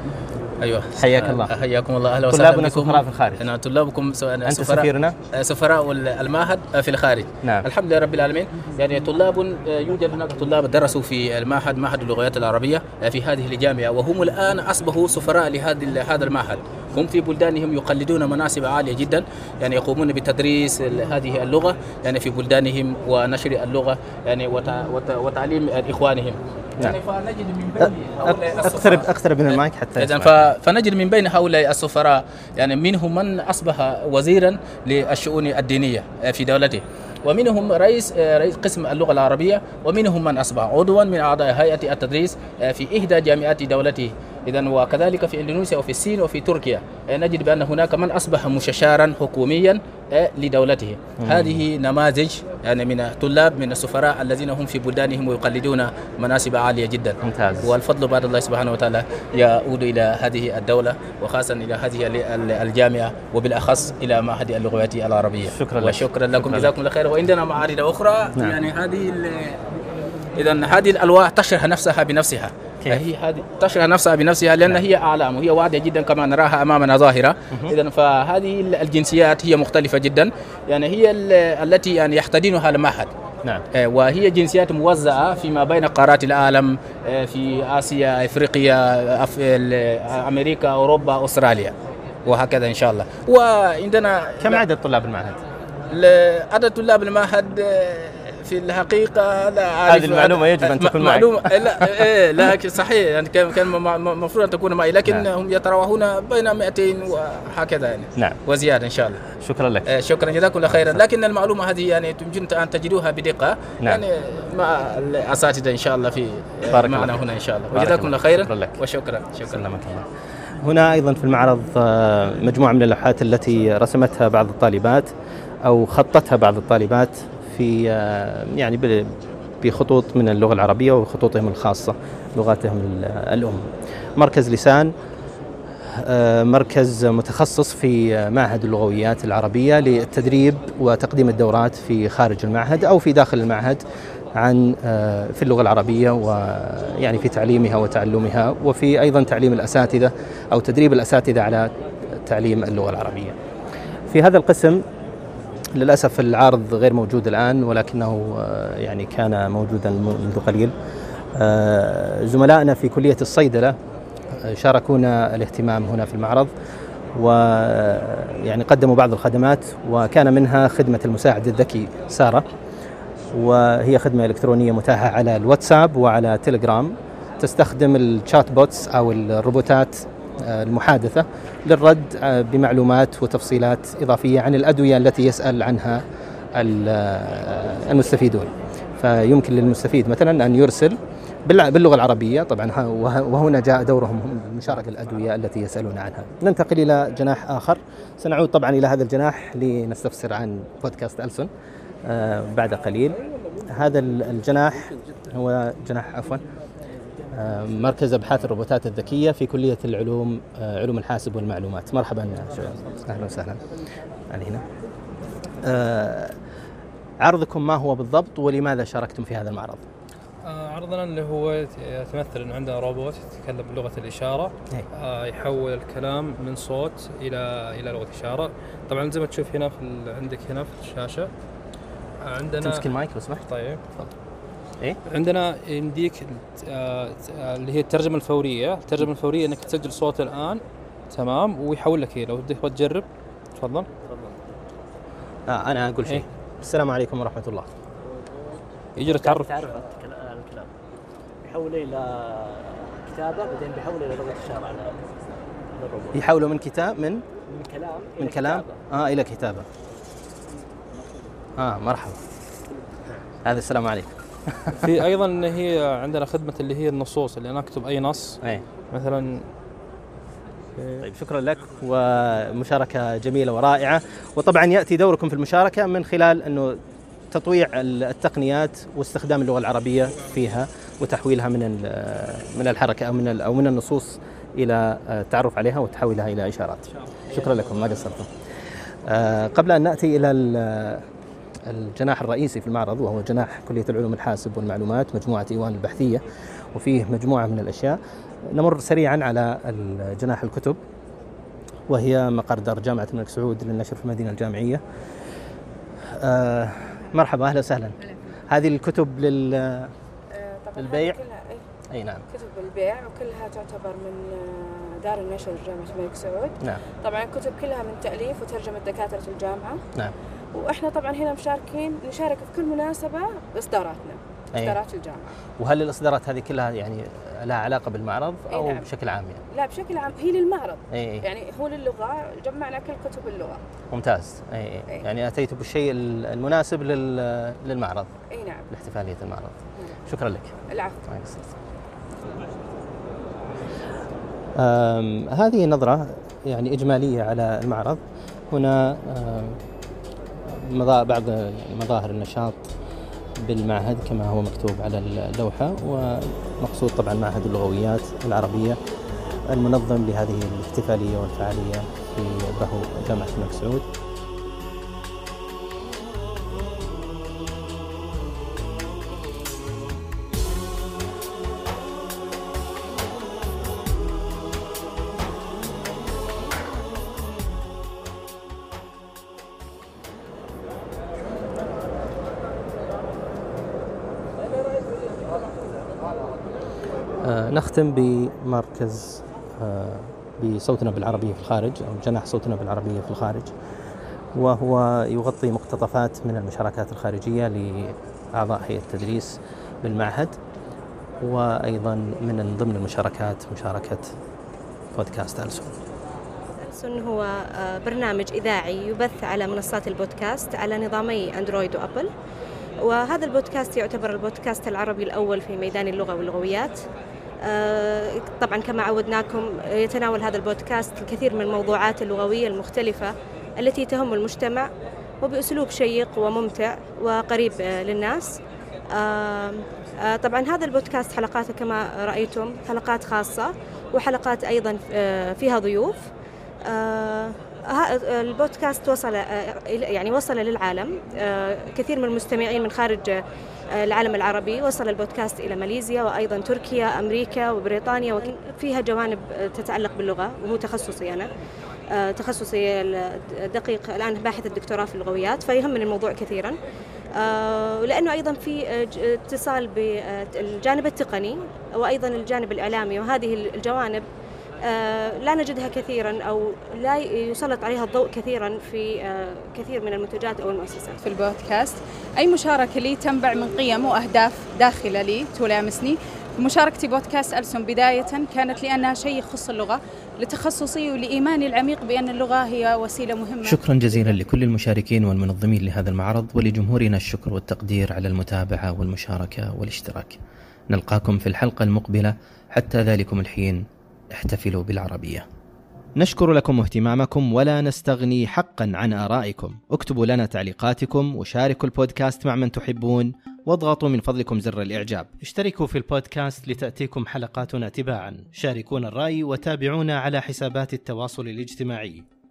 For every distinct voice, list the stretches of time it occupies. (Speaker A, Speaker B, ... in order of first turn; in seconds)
Speaker A: 0.6-69.6, 70.4-83.1, 83.7-94.6, 95.9-109.2, 109.9-119.6
Speaker B: 1.0-1.5, 2.3-3.4, 4.5-5.2, 28.2-30.4, 51.2-51.6, 57.2-57.7, 65.5-66.7, 94.4-95.4, 99.9-101.8, 109.4-109.8, 110.7-111.0, 116.7-118.8, 119.5-120.1, 120.6-125.1, 125.7-133.6, 134.2-134.9, 135.9-143.8, 144.4-153.4, 154.1-154.8, 155.8-160.7, 161.4-163.8, 164.4-166.5, 167.2-172.4, 173.3-186.0, 186.6-201.5, 202.1-203.2, 203.7-206.4, 207.3-213.6, 214.3-214.6, 215.6-216.3, 217.2-219.8, 232.6-233.4, 245.5-247.7, 256.1-257.2, 258.2-259.7, 261.6-262.2, 263.4-264.1, 271.0-276.8, 277.3-288.3, 289.1-291.1, 291.7-296.2, 296.7-300.8, 301.9-304.8, 306.1-308.0, 308.5-309.9, 310.8-311.2, 311.9-312.2, 325.6-329.4, 330.9-331.2, 333.9-338.1, 338.7-340.5, 341.1-341.5, 344.6-348.0, 348.5-349.6, 350.5-352.7, 353.4-358.8, 359.5-363.9, 387.2-393.5, 394.4-400.4, 401.2-404.1, 404.9-405.7, 483.4-490.2, 490.7-495.2, 496.0-512.1
Speaker C: 220.4-231.3, 232.3-232.9, 233.5-233.8, 235.1-243.1, 243.6-243.9, 249.0-249.5, 264.8-268.4, 268.9-269.4, 270.8-271.0
Speaker D: 244.1-244.4, 249.1-250.7, 251.5-255.1, 255.7-256.2, 257.5-258.7
Speaker E: 310.3-311.6, 312.3-319.8, 320.5-325.3, 328.5-328.9, 329.5-333.6, 338.3-338.7, 340.7-341.0
Speaker F: 406.6-412.1, 412.8-416.8, 417.5-424.7, 425.2-428.4, 428.9-436.1, 436.7-443.2, 443.8-451.3, 451.9-456.6, 457.2-464.0, 464.7-471.0
Speaker G: 471.0-484.0